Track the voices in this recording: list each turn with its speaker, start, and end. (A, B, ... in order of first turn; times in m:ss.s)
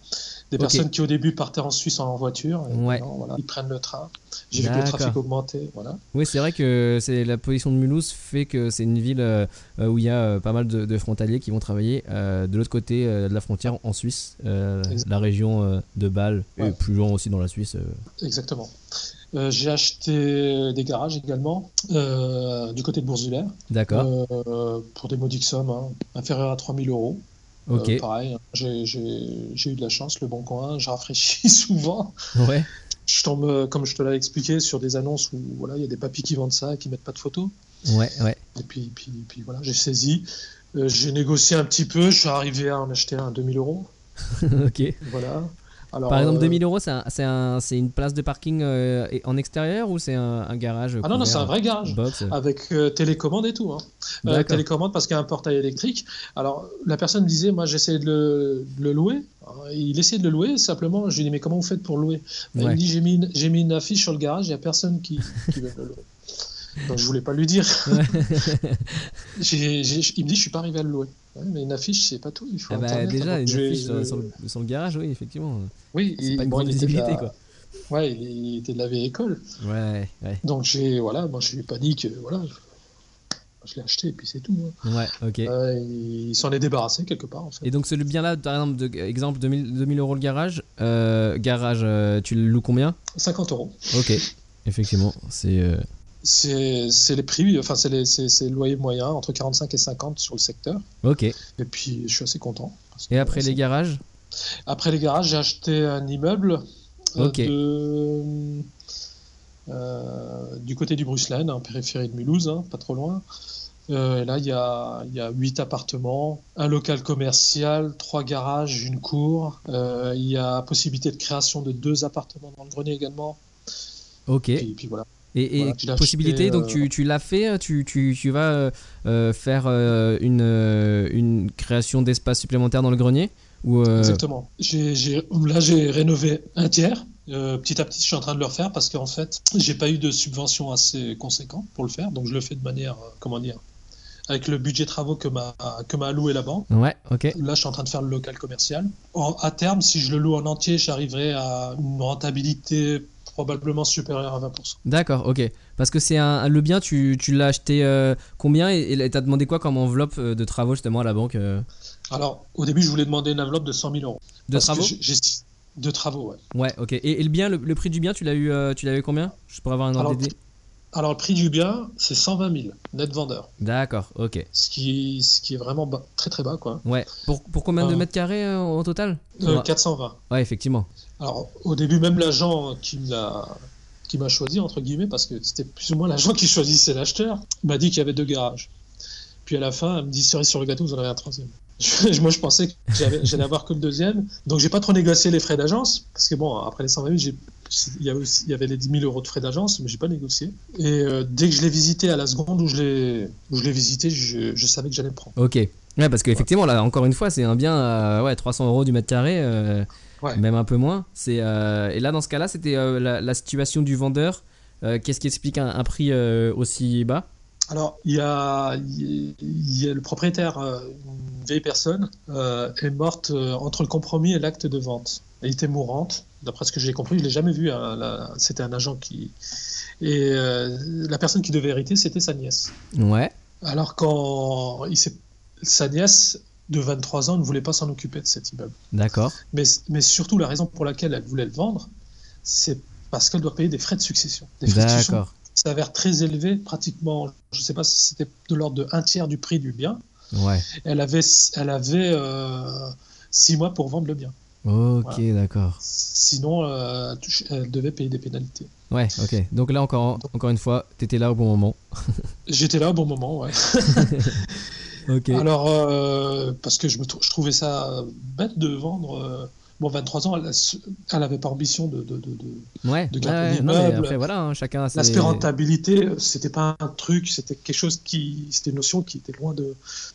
0:00.5-0:06.0 A
0:00.6-0:00.8 B
0:02.7-0:03.0 B
0:04.6-0:05.2 B
0:06.1-0:18.0 B
0:18.2-0:18.8 A
0:19.3-0:27.2 A
0:23.7-0:24.1 B
0:27.7-0:28.0 B
0:27.7-0:32.2 A
0:32.4-0:32.7 B
0:33.1-0:37.5 A
0:37.9-0:38.4 B
0:38.6-0:43.9 A
0:44.3-0:45.0 B
0:45.0-0:46.6 A
0:46.1-0:52.4 B
0:51.0-1:06.1 A
0:54.2-0:54.6 B
1:06.8-1:08.2 A
1:07.9-1:09.1 B
1:09.4-1:14.3 A
1:12.7-1:17.3 B
1:15.9-1:17.3 A
1:17.9-1:19.4 A
1:19.6-1:20.4 B
1:20.4-1:22.6 A
1:23.6-1:24.8 A
1:24.8-1:25.5 B
1:25.4-1:27.7 A
1:27.6-1:33.0 B
1:33.1-1:34.2 A
1:33.9-1:35.8 B
1:36.2-1:40.8 A
1:41.0-1:41.4 B
1:41.6-1:43.6 A
1:43.1-1:44.0 B
1:44.7-1:46.6 A
1:47.2-1:48.7 A
1:47.2-1:47.5 B
1:49.7-1:53.2 A
1:53.9-2:03.4 A
2:04.3-2:04.7 B
2:04.6-2:05.1 A
2:05.3-2:14.2 B
2:05.6-2:06.9 A
2:14.0-2:23.6 A
2:24.3-2:26.7 A
2:26.7-2:27.4 B
2:27.3-2:34.8 A
2:34.8-2:41.7 B
2:42.1-2:46.4 A
2:44.5-2:44.9 B
2:46.5-2:50.3 B
2:50.0-2:50.3 A
2:50.9-2:53.5 A
2:53.6-2:54.5 B
2:54.5-2:56.8 A
2:56.8-2:59.7 B
2:57.8-2:58.1 A
2:59.4-3:00.2 A
3:00.3-3:00.9 B
3:01.2-3:08.7 A
3:09.4-3:25.4 A
3:25.4-3:37.3 B
3:37.7-3:49.3 A
3:50.0-3:52.7 A
3:52.9-3:53.3 B
3:53.6-3:58.8 A
3:58.9-3:59.4 B
3:59.5-4:01.9 A
4:02.4-4:10.0 A
4:04.7-4:05.3 B
4:10.3-4:10.7 B
4:10.7-4:14.3 A
4:14.6-4:15.8 B
4:15.8-4:18.7 A
4:18.9-4:22.2 B
4:22.5-4:24.7 A
4:23.9-4:24.4 B
4:25.1-4:25.5 B
4:25.3-4:34.2 A
4:32.8-4:35.5 B
4:34.9-4:39.8 A